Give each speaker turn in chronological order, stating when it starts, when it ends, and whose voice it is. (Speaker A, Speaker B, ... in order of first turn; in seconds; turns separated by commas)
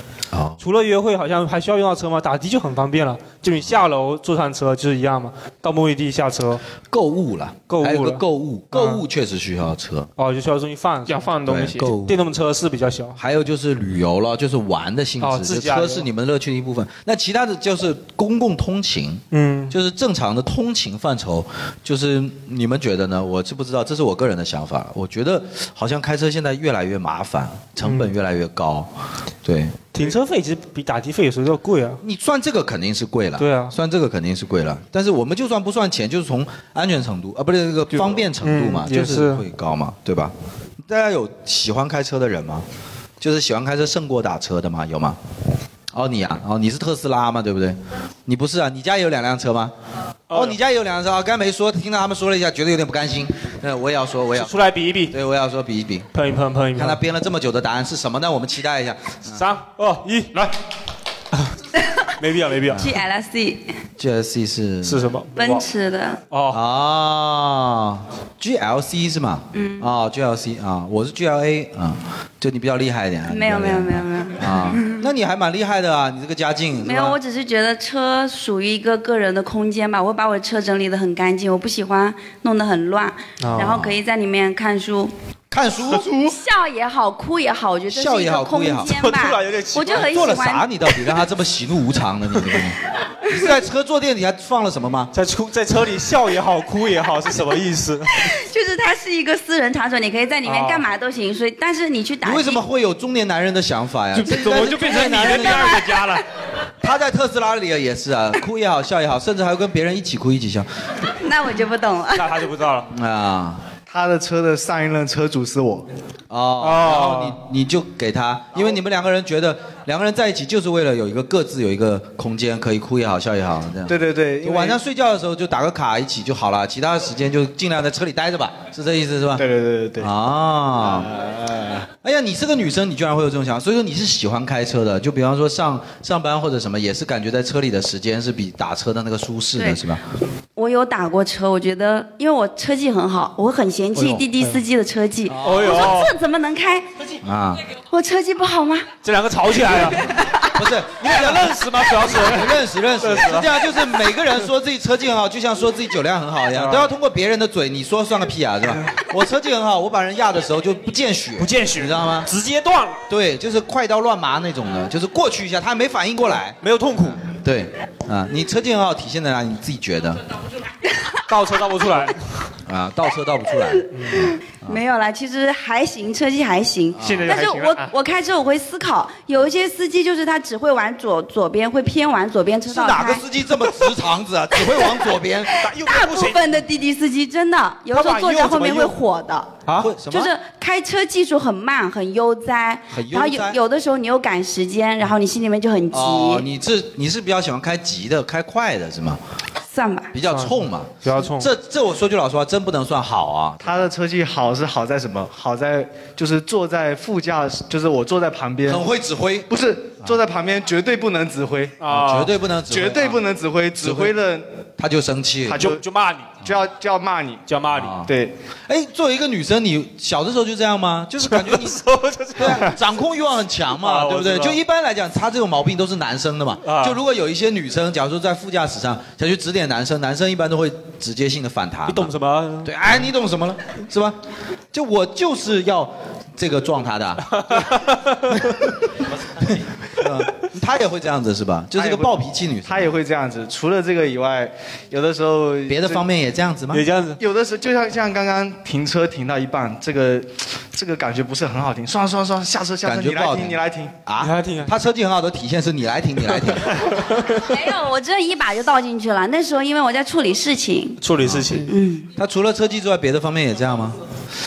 Speaker A: 0.3-0.6, Speaker B: 0.6-6.6, Speaker A: 6.9-10.1, Speaker B: 7.7-9.0, Speaker B: 10.2-11.3, Speaker C: 11.1-11.9, Speaker A: 11.5-12.2, Speaker B: 11.8-13.2, Speaker A: 13.2-28.9, Speaker B: 15.2-16.1, Speaker B: 19.3-19.7, Speaker B: 27.8-28.1, Speaker A: 29.4-29.9, Speaker B: 29.9-32.0, Speaker A: 32.0-42.6, Speaker B: 33.4-33.8, Speaker B: 38.4-39.4, Speaker A: 43.2-45.2, Speaker A: 45.9-49.7, Speaker B: 50.3-50.6, Speaker A: 50.3-54.5, Speaker B: 54.4-55.1, Speaker A: 55.1-56.1, Speaker B: 56.1-57.0, Speaker A: 56.8-59.4, Speaker B: 59.3-60.5, Speaker B: 62.2-62.9, Speaker D: 62.8-63.6, Speaker A: 64.0-65.1, Speaker B: 64.8-65.7, Speaker D: 65.4-66.2, Speaker B: 66.3-66.6, Speaker A: 66.5-77.2, Speaker D: 69.5-69.9, Speaker D: 73.3-75.1, Speaker D: 76.8-85.1, Speaker B: 83.4-83.8, Speaker A: 83.5-83.9, Speaker A: 85.5-86.3, Speaker D: 86.1-90.7, Speaker A: 87.9-89.0, Speaker B: 88.9-90.4, Speaker A: 90.0-95.1, Speaker B: 95.1-98.2, Speaker D: 98.3-102.6, Speaker B: 100.5-100.8, Speaker A: 102.2-105.8, Speaker C: 104.2-106.2, Speaker A: 106.8-110.7, Speaker D: 111.2-112.5, Speaker B: 112.1-112.9, Speaker A: 112.9-113.6, Speaker E: 113.9-115.9, Speaker A: 116.3-129.4, Speaker B: 116.6-117.4, Speaker E: 123.9-124.8, Speaker E: 129.4-130.1, Speaker A: 130.0-131.1, Speaker E: 130.8-131.9, Speaker A: 132.0-140.0, Speaker D: 139.6-139.8, Speaker D: 140.6-146.9, Speaker B: 144.0-144.6, Speaker A: 145.3-145.8, Speaker B: 145.4-146.1, Speaker A: 147.2-147.6, Speaker D: 147.9-148.9, Speaker B: 149.0-150.2, Speaker A: 150.5-162.3, Speaker B: 150.9-154.1, Speaker B: 156.5-156.9, Speaker B: 161.4-163.0, Speaker A: 163.1-166.6, Speaker B: 166.6-167.2, Speaker A: 167.2-170.2, Speaker B: 171.3-172.4, Speaker A: 172.7-173.9, Speaker B: 173.9-174.2, Speaker D: 174.7-183.2, Speaker A: 177.0-177.3, Speaker C: 177.0-177.9, Speaker A: 182.7-185.5, Speaker D: 184.7-185.1, Speaker B: 185.6-186.6, Speaker D: 185.6-189.5, Speaker B: 187.9-189.0, Speaker B: 189.7-189.9, Speaker A: 189.8-190.3, Speaker D: 190.1-196.5, Speaker A: 192.9-193.6, Speaker A: 195.9-199.2, Speaker D: 199.7-200.1, Speaker A: 200.1-203.9, Speaker B: 200.3-201.5, Speaker E: 203.6-208.9, Speaker A: 208.7-209.5, Speaker E: 209.5-211.8, Speaker B: 211.8-212.3, Speaker A: 211.9-213.2, Speaker E: 212.7-214.5, Speaker A: 213.8-214.1, Speaker A: 214.8-215.7, Speaker E: 215.5-215.8, Speaker B: 215.5-216.3, Speaker E: 216.4-217.4, Speaker B: 217.5-218.0, Speaker A: 217.7-218.1, Speaker E: 218.1-218.3, Speaker A: 218.7-221.8, Speaker B: 221.2-222.8, Speaker A: 222.4-234.2, Speaker B: 223.8-224.6, Speaker B: 226.6-227.0, Speaker B: 231.9-232.7, Speaker A: 234.7-237.3, Speaker B: 237.3-238.2, Speaker A: 239.4-242.9, Speaker E: 241.8-246.1, Speaker A: 245.7-246.8, Speaker B: 246.7-247.2, Speaker E: 247.2-253.9, Speaker A: 252.8-256.8, Speaker B: 254.2-254.7, Speaker D: 257.5-261.0, Speaker B: 261.0-261.7, Speaker A: 261.2-261.5, Speaker D: 261.7-262.1, Speaker A: 262.2-264.0